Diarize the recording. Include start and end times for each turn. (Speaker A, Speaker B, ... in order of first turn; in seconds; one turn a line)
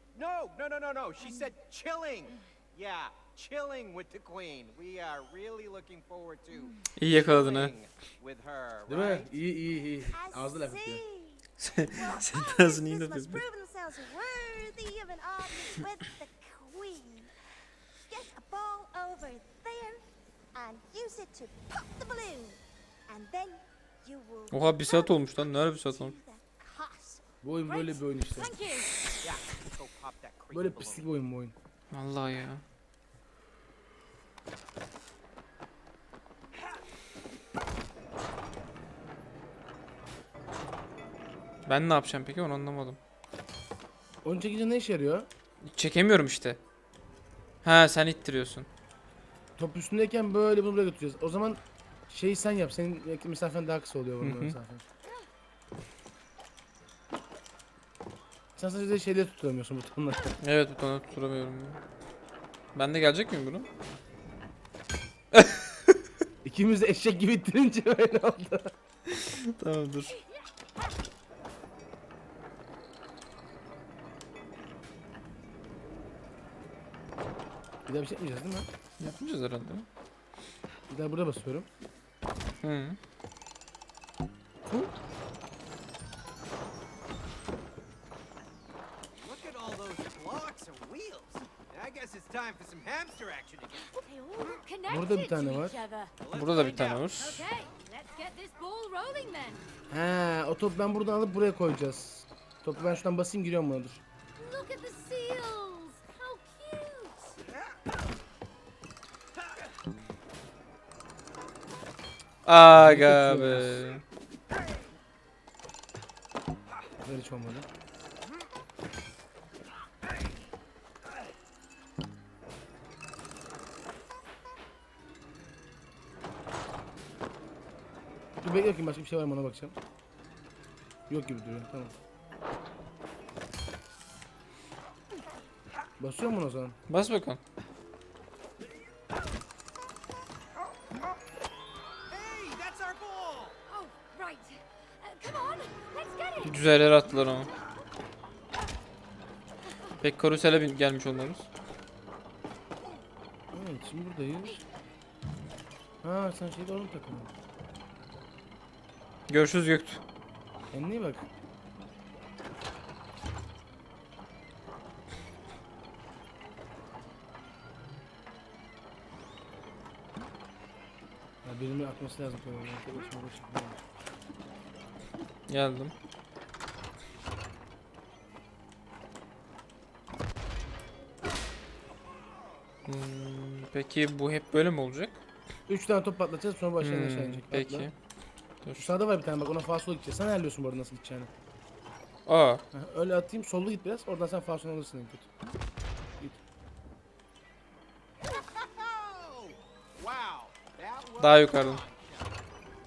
Speaker A: 0.1-9.3
Speaker B: 7.0-7.7
Speaker C: 8.9-11.0
Speaker D: 10.1-17.3
Speaker B: 11.6-13.4
Speaker D: 18.1-20.0
Speaker D: 20.5-27.2
Speaker B: 24.5-26.1
Speaker C: 27.4-28.5
Speaker E: 27.6-29.0
Speaker A: 29.2-31.1
Speaker C: 30.5-31.5
Speaker B: 31.9-32.6
Speaker B: 41.6-43.0
Speaker C: 44.2-45.3
Speaker B: 45.6-46.6
Speaker B: 47.6-48.7
Speaker C: 49.6-54.8
Speaker B: 54.2-54.5
Speaker C: 58.6-60.4
Speaker B: 60.4-61.8
Speaker B: 62.7-63.7
Speaker B: 65.3-65.9
Speaker C: 66.4-68.7
Speaker B: 69.1-70.2
Speaker C: 77.8-78.7
Speaker B: 79.0-79.9
Speaker C: 80.9-81.7
Speaker B: 82.6-83.0
Speaker A: 89.2-94.0
Speaker E: 93.8-96.1
Speaker C: 94.9-95.8
Speaker A: 96.2-97.4
Speaker B: 96.3-97.4
Speaker E: 97.1-99.6
Speaker C: 99.9-104.0
Speaker E: 104.4-107.4
Speaker B: 112.4-114.0
Speaker C: 112.7-113.8
Speaker C: 117.0-117.7
Speaker C: 128.4-129.8
Speaker C: 131.1-131.9
Speaker C: 136.0-136.8
Speaker B: 136.9-137.4
Speaker A: 142.1-143.6
Speaker E: 143.7-146.7
Speaker B: 146.4-147.5
Speaker B: 150.0-151.5
Speaker C: 153.5-154.6
Speaker C: 156.0-157.3
Speaker B: 159.3-160.0
Speaker C: 160.7-161.2
Speaker C: 171.4-173.8
Speaker B: 175.5-175.9
Speaker B: 182.8-185.2
Speaker C: 185.7-187.9
Speaker B: 186.8-187.9
Speaker C: 188.8-191.3
Speaker B: 192.2-192.6
Speaker C: 192.7-195.3
Speaker A: 198.3-202.2
Speaker B: 201.2-201.8